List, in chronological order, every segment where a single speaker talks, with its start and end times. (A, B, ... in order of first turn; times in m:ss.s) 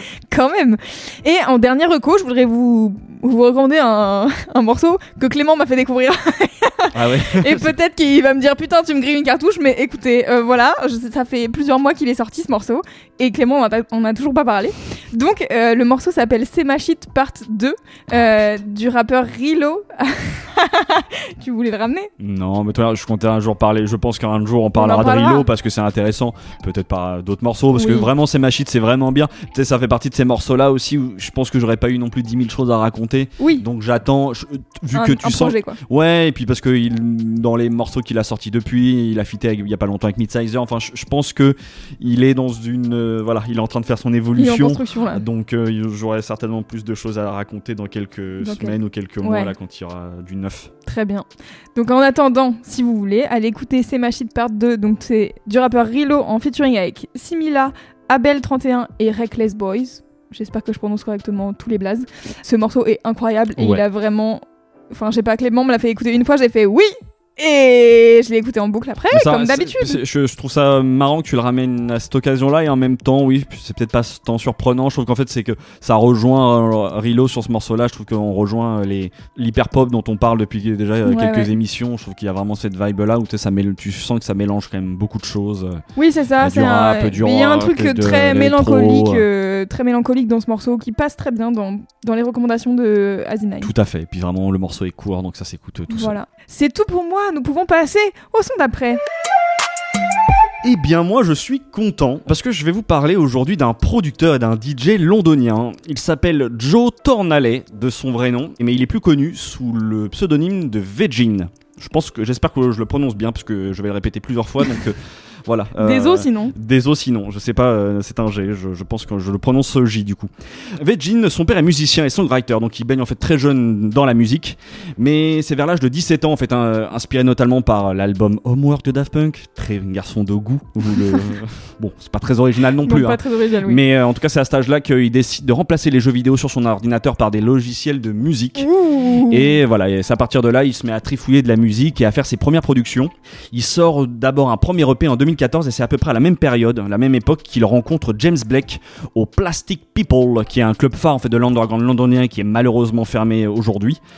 0:00.3-0:22.1 A
0:06.9-0:07.7 B
0:22.2-0:50.7 B
0:24.8-0:25.4 A
0:27.8-0:28.1 A
0:33.4-0:33.6 A
0:34.9-0:35.8 A
0:44.4-0:45.2 A
0:48.4-0:49.5 A
0:50.8-1:10.0 A
1:03.6-1:03.8 B
1:09.1-1:25.8 B
1:21.0-1:21.5 A
1:26.0-1:33.7 A
1:26.4-1:29.2 B
1:33.6-1:36.1 B
1:35.9-1:39.0 A
1:40.6-2:18.7 B
1:55.8-1:56.5 A
2:12.8-2:13.8 A
2:18.6-2:19.5 A
2:19.3-2:34.0 B